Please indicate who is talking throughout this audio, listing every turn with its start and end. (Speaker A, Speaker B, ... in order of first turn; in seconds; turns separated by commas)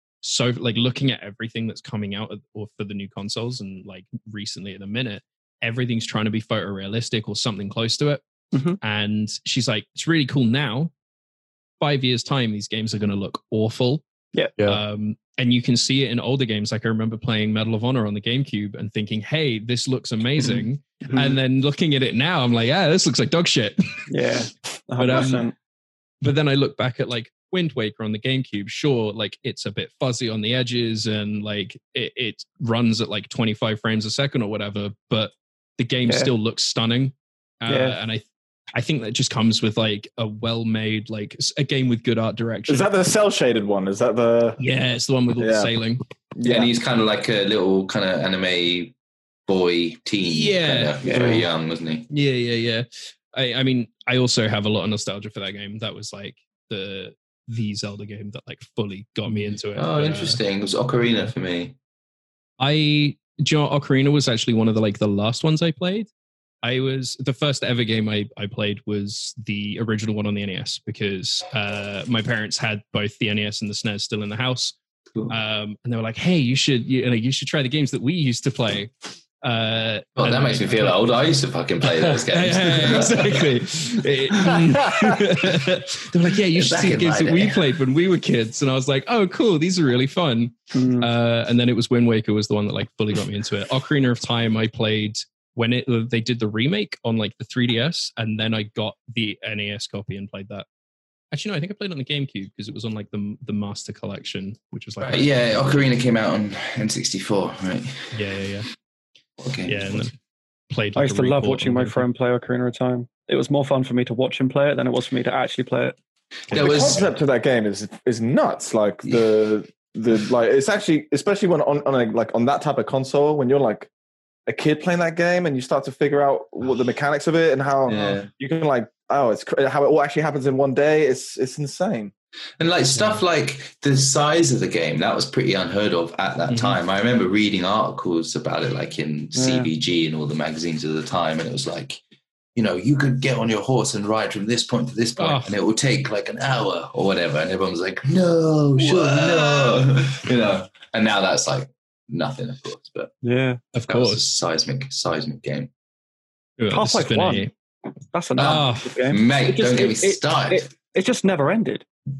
Speaker A: 0.2-8.2, Speaker B: 8.5-8.8, Speaker A: 8.8-10.9, Speaker A: 11.8-14.0, Speaker A: 14.6-24.1, Speaker B: 24.1-25.5, Speaker A: 25.0-25.5, Speaker A: 26.2-42.9, Speaker B: 36.0-36.3, Speaker B: 37.7-38.0, Speaker C: 42.7-44.6, Speaker A: 44.6-46.0, Speaker C: 45.4-45.7, Speaker C: 46.4-46.7, Speaker D: 46.4-48.9, Speaker D: 49.5-52.1, Speaker A: 50.2-51.2, Speaker B: 51.0-51.4, Speaker A: 52.1-60.4, Speaker D: 59.7-61.7, Speaker A: 62.6-66.1, Speaker A: 66.6-74.8, Speaker A: 75.3-81.0, Speaker D: 80.2-83.5, Speaker A: 81.8-100.7, Speaker D: 84.3-85.7, Speaker D: 86.5-87.7, Speaker B: 90.7-91.1, Speaker A: 101.3-105.7, Speaker D: 105.0-108.2, Speaker A: 108.1-108.7, Speaker D: 109.4-110.0, Speaker A: 109.7-110.1, Speaker A: 110.7-112.0, Speaker B: 111.0-116.0, Speaker D: 116.5-117.1, Speaker A: 116.5-117.1, Speaker C: 116.5-123.9, Speaker C: 124.5-132.1, Speaker D: 127.8-128.3, Speaker D: 132.6-142.0, Speaker A: 136.5-136.8, Speaker B: 139.3-139.7, Speaker D: 142.6-153.1, Speaker A: 145.2-145.5, Speaker B: 148.9-149.4, Speaker B: 153.2-153.6, Speaker A: 153.7-154.2, Speaker D: 153.9-155.7, Speaker A: 156.6-157.5, Speaker B: 156.7-157.5, Speaker B: 158.1-161.9, Speaker D: 158.4-160.7, Speaker A: 158.4-159.0